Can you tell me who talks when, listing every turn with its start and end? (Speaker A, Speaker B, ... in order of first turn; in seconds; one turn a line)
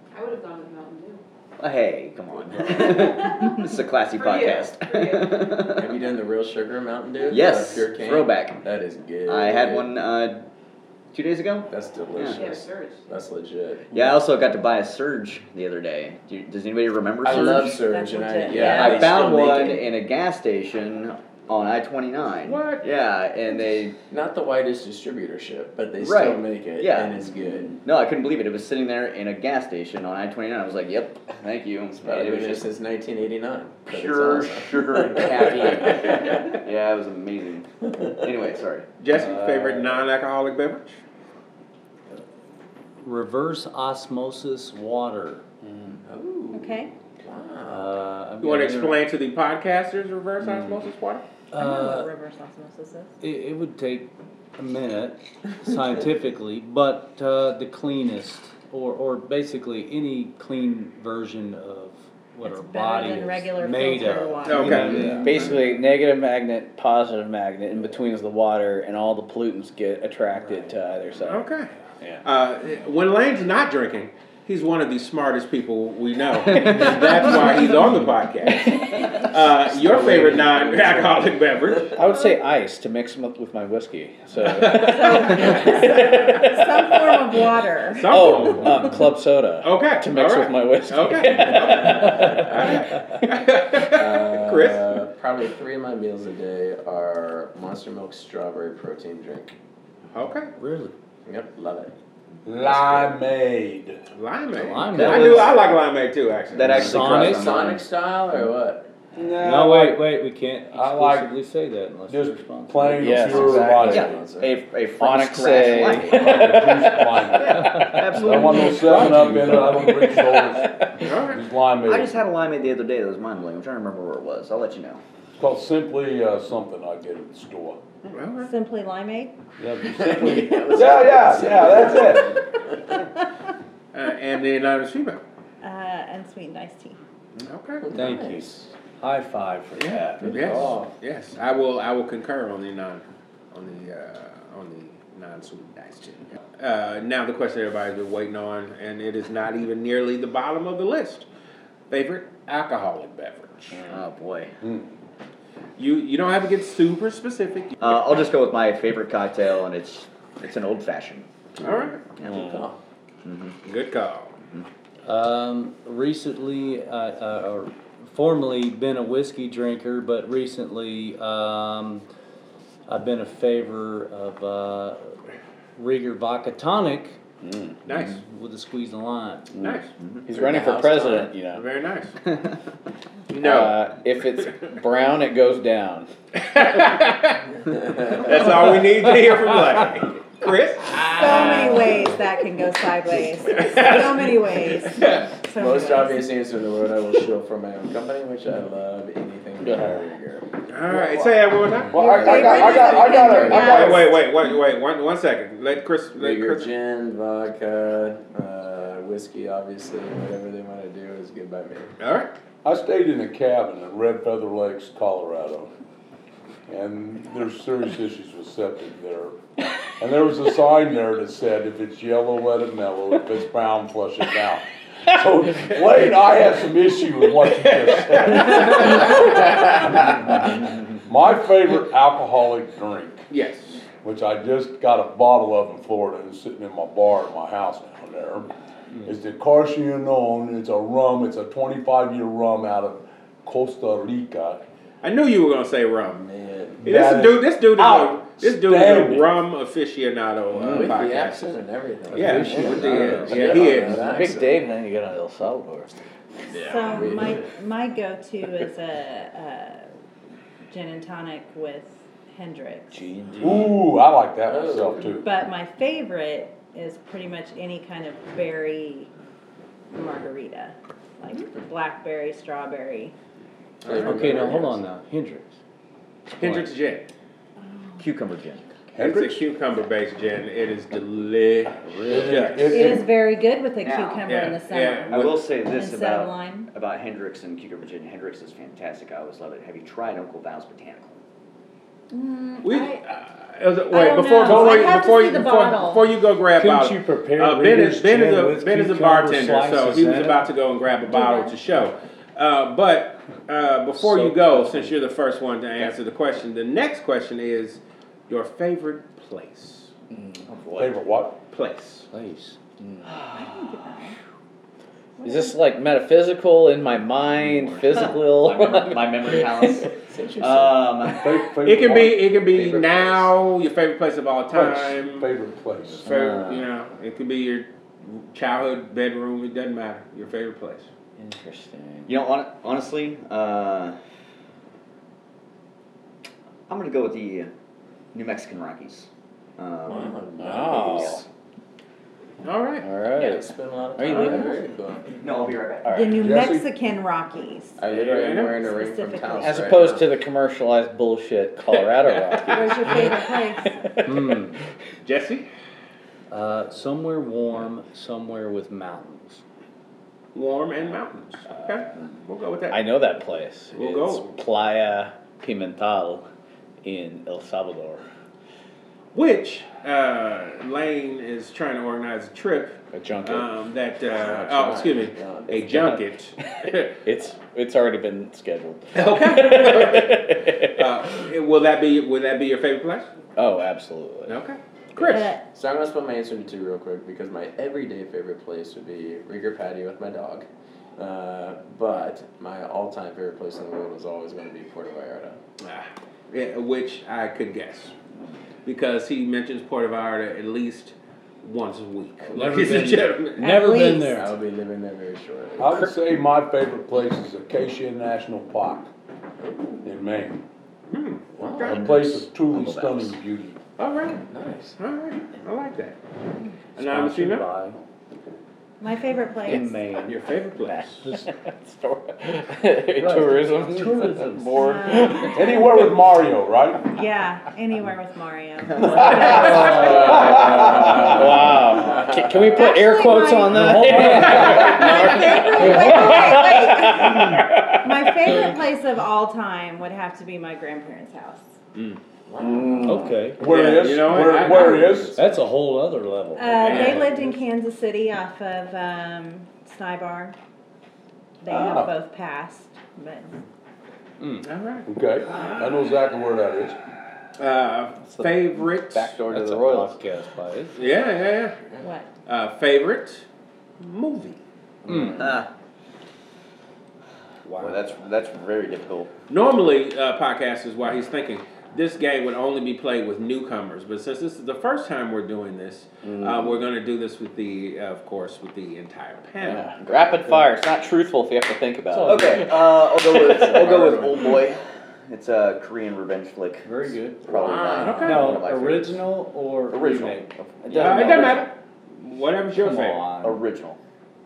Speaker A: 0.1-1.2
Speaker B: 1.6-6.0
Speaker A: 2.7-3.4
Speaker A: 4.1-5.8
Speaker C: 5.8-9.9
Speaker B: 7.2-8.6
Speaker B: 9.2-10.5
Speaker B: 11.1-12.5
Speaker C: 11.7-14.2
Speaker A: 12.3-13.1
Speaker B: 13.9-17.8
Speaker C: 17.2-19.9
Speaker D: 17.2-19.3
Speaker B: 18.5-23.9
Speaker E: 22.4-22.8
Speaker C: 24.1-27.8
Speaker B: 26.0-27.2
Speaker B: 27.8-32.6
Speaker C: 32.0-36.3
Speaker B: 33.9-37.7
Speaker B: 38.2-38.9
Speaker E: 39.0-41.0
Speaker F: 39.2-39.9
Speaker F: 43.0-45.4
Speaker C: 46.0-47.9
Speaker D: 46.5-46.9
Speaker F: 47.7-49.0
Speaker E: 48.4-51.2
Speaker F: 51.5-52.1
Speaker D: 51.5-53.1
Speaker F: 53.2-65.6
Speaker D: 62.4-65.0
Speaker E: 64.4-65.6
Speaker G: 64.8-71.5
Speaker C: 64.9-65.2
Speaker E: 71.2-71.7
Speaker E: 72.2-82.0
Speaker C: 79.7-81.8
Speaker G: 81.9-87.1
Speaker E: 84.4-85.6
Speaker D: 84.7-88.2
Speaker E: 87.9-89.0
Speaker G: 88.1-93.0
Speaker E: 89.6-95.0
Speaker C: 91.7-92.5
Speaker F: 91.9-92.5
Speaker C: 93.8-99.5
Speaker E: 100.1-100.5
Speaker F: 100.6-100.9
Speaker C: 101.2-101.9
Speaker H: 102.4-104.0
Speaker C: 102.7-103.1
Speaker E: 104.1-106.9
Speaker F: 104.5-105.6
Speaker B: 104.9-105.8
Speaker B: 106.5-107.8
Speaker F: 106.7-107.7
Speaker C: 106.7-108.9
Speaker H: 109.2-110.0
Speaker F: 109.4-113.1
Speaker H: 110.7-111.3
Speaker H: 112.1-114.1
Speaker G: 113.0-113.8
Speaker C: 113.0-114.5
Speaker B: 113.7-116.6
Speaker G: 115.0-116.9
Speaker H: 116.1-122.2
Speaker B: 117.4-119.5
Speaker F: 117.5-118.4
Speaker F: 119.2-119.6
Speaker E: 121.0-121.4
Speaker B: 121.8-125.0
Speaker H: 125.4-127.8
Speaker E: 128.1-128.5
Speaker D: 128.4-129.3
Speaker H: 129.6-132.4
Speaker C: 129.8-132.7
Speaker E: 133.9-135.2
Speaker D: 135.6-137.0
Speaker E: 137.4-137.9
Speaker C: 137.8-138.6
Speaker F: 137.9-140.7
Speaker E: 139.8-151.3
Speaker G: 140.1-140.4
Speaker C: 140.2-140.9
Speaker E: 151.9-153.8
Speaker B: 153.9-154.5
Speaker H: 154.6-154.9
Speaker E: 155.8-157.9
Speaker B: 157.8-162.5
Speaker E: 161.6-162.0
Speaker C: 162.2-162.8
Speaker B: 163.2-163.6
Speaker E: 163.6-164.3
Speaker F: 165.0-172.0
Speaker F: 172.9-175.2
Speaker F: 175.8-177.2
Speaker G: 177.4-177.8
Speaker E: 177.8-178.2
Speaker F: 178.2-179.5
Speaker G: 179.6-181.6
Speaker E: 179.6-179.9
Speaker B: 180.0-180.3
Speaker C: 180.3-181.3
Speaker E: 181.5-182.2
Speaker E: 183.3-183.9
Speaker G: 183.4-186.1
Speaker E: 186.3-187.4
Speaker C: 187.7-188.8
Speaker E: 188.2-191.7
Speaker G: 191.0-191.9
Speaker D: 191.0-196.3
Speaker E: 193.5-195.3
Speaker C: 195.6-201.4
Speaker G: 199.6-200.1
Speaker E: 200.7-206.7
Speaker D: 201.9-204.1
Speaker H: 201.9-204.1
Speaker C: 202.1-203.9
Speaker C: 206.2-211.9
Speaker E: 212.0-212.3
Speaker H: 212.6-215.7
Speaker H: 216.7-219.4
Speaker H: 220.0-230.4
Speaker E: 227.7-228.9
Speaker H: 231.0-233.3
Speaker E: 233.3-233.8
Speaker H: 234.0-238.5
Speaker H: 239.0-244.6
Speaker E: 245.0-246.2
Speaker C: 246.2-246.8
Speaker H: 246.8-249.3
Speaker E: 246.8-251.6
Speaker C: 250.6-254.7
Speaker E: 252.1-254.2
Speaker F: 252.1-253.7
Speaker G: 252.3-256.0
Speaker C: 256.5-257.5
Speaker D: 256.5-259.9
Speaker D: 260.7-263.1
Speaker G: 262.9-263.5
Speaker H: 263.4-265.3
Speaker C: 264.4-265.2
Speaker D: 265.2-269.1
Speaker D: 269.9-273.1
Speaker E: 273.8-274.5
Speaker C: 273.8-274.8
Speaker F: 274.0-275.5
Speaker F: 276.3-276.7
Speaker E: 276.4-277.1
Speaker D: 277.6-278.0
Speaker B: 278.0-278.6
Speaker H: 278.9-279.4
Speaker E: 279.0-283.0
Speaker F: 281.8-282.7
Speaker H: 282.1-283.1
Speaker D: 282.7-286.7
Speaker B: 283.8-284.4
Speaker E: 284.2-285.4
Speaker B: 285.1-291.2
Speaker D: 292.1-293.0
Speaker E: 292.6-309.9
Speaker D: 293.9-296.1
Speaker H: 294.5-294.8
Speaker F: 296.6-300.4
Speaker D: 301.1-301.6
Speaker F: 304.0-304.9
Speaker G: 310.1-310.4
Speaker B: 310.4-311.0
Speaker H: 310.8-311.4
Speaker E: 311.5-312.1
Speaker F: 312.1-312.6
Speaker G: 312.8-313.1
Speaker D: 313.3-314.1
Speaker D: 315.2-315.6
Speaker G: 315.2-319.8
Speaker F: 317.5-317.7
Speaker B: 317.9-321.3
Speaker C: 320.0-320.9
Speaker H: 321.2-322.3
Speaker E: 321.6-325.3
Speaker C: 322.5-323.3
Speaker H: 324.5-326.1
Speaker G: 326.0-326.6
Speaker E: 326.0-330.9
Speaker G: 331.2-332.1
Speaker B: 332.1-334.0
Speaker B: 336.7-337.5
Speaker B: 338.1-340.2
Speaker C: 339.9-341.2
Speaker G: 340.4-341.2
Speaker B: 340.8-341.2
Speaker E: 342.4-342.9
Speaker G: 342.8-343.4
Speaker C: 343.1-345.1
Speaker G: 343.9-344.6
Speaker B: 345.2-346.2
Speaker D: 345.9-347.8
Speaker H: 346.2-346.7
Speaker C: 347.8-350.1
Speaker E: 347.9-348.6
Speaker D: 348.5-349.8
Speaker G: 349.4-354.4
Speaker E: 352.1-352.7
Speaker D: 352.5-353.8
Speaker F: 354.0-354.6
Speaker E: 355.0-355.5
Speaker F: 356.3-359.4
Speaker E: 360.3-362.9
Speaker G: 362.7-366.2
Speaker E: 363.7-364.3
Speaker G: 366.8-368.0
Speaker E: 369.1-376.9
Speaker G: 372.9-373.5
Speaker C: 374.1-376.0
Speaker G: 376.5-380.9
Speaker E: 378.9-383.1
Speaker G: 383.4-384.4
Speaker E: 384.3-385.4
Speaker D: 385.0-385.4
Speaker C: 385.5-390.4
Speaker C: 391.0-395.4
Speaker E: 395.6-397.9
Speaker E: 398.6-403.4
Speaker F: 402.3-404.3
Speaker D: 403.4-404.2
Speaker C: 404.1-405.9
Speaker H: 405.6-408.9
Speaker C: 409.4-409.8
Speaker H: 409.8-410.4
Speaker E: 410.9-411.8
Speaker C: 411.4-411.8
Speaker B: 411.6-413.1
Speaker H: 411.6-413.6
Speaker E: 413.8-414.2
Speaker C: 414.2-414.8
Speaker E: 414.8-416.0
Speaker E: 416.8-417.5
Speaker F: 416.8-417.8
Speaker D: 418.8-419.7
Speaker F: 419.5-420.2
Speaker E: 420.0-421.0
Speaker G: 420.6-425.6
Speaker F: 421.0-421.3
Speaker F: 422.9-425.0
Speaker D: 424.5-425.9
Speaker H: 425.3-426.9
Speaker D: 426.9-430.2
Speaker C: 429.2-432.5
Speaker G: 429.3-438.5
Speaker F: 429.4-430.0
Speaker H: 430.1-430.9
Speaker D: 432.4-433.7
Speaker F: 433.5-434.8
Speaker H: 433.8-434.9
Speaker E: 434.1-435.6
Speaker D: 434.3-441.5
Speaker F: 435.6-436.1
Speaker C: 442.3-443.0
Speaker F: 442.8-443.4
Speaker H: 443.4-445.1
Speaker E: 443.4-445.0
Speaker C: 444.4-445.4
Speaker F: 445.1-447.2
Speaker D: 446.4-450.3
Speaker E: 446.6-447.1
Speaker D: 451.4-453.4
Speaker H: 451.5-451.9
Speaker F: 454.2-454.5
Speaker E: 454.4-454.9
Speaker H: 454.9-456.8
Speaker E: 457.4-459.1
Speaker G: 458.1-459.9
Speaker F: 459.3-460.8
Speaker E: 460.8-461.5
Speaker D: 461.8-462.1
Speaker E: 462.2-463.2
Speaker E: 463.8-464.4
Speaker F: 464.9-465.3
Speaker G: 464.9-465.3
Speaker B: 465.1-465.5
Speaker E: 467.5-467.8
Speaker B: 467.6-469.1
Speaker E: 469.3-479.7
Speaker G: 476.0-476.6
Speaker G: 479.4-484.2
Speaker F: 481.9-482.3
Speaker B: 482.0-489.0
Speaker C: 483.4-484.1
Speaker F: 486.6-487.2
Speaker C: 487.3-488.2
Speaker E: 487.4-488.4
Speaker F: 488.0-490.3
Speaker B: 489.7-491.5
Speaker G: 490.7-491.4
Speaker E: 490.7-493.1
Speaker F: 492.8-493.2
Speaker B: 493.2-493.8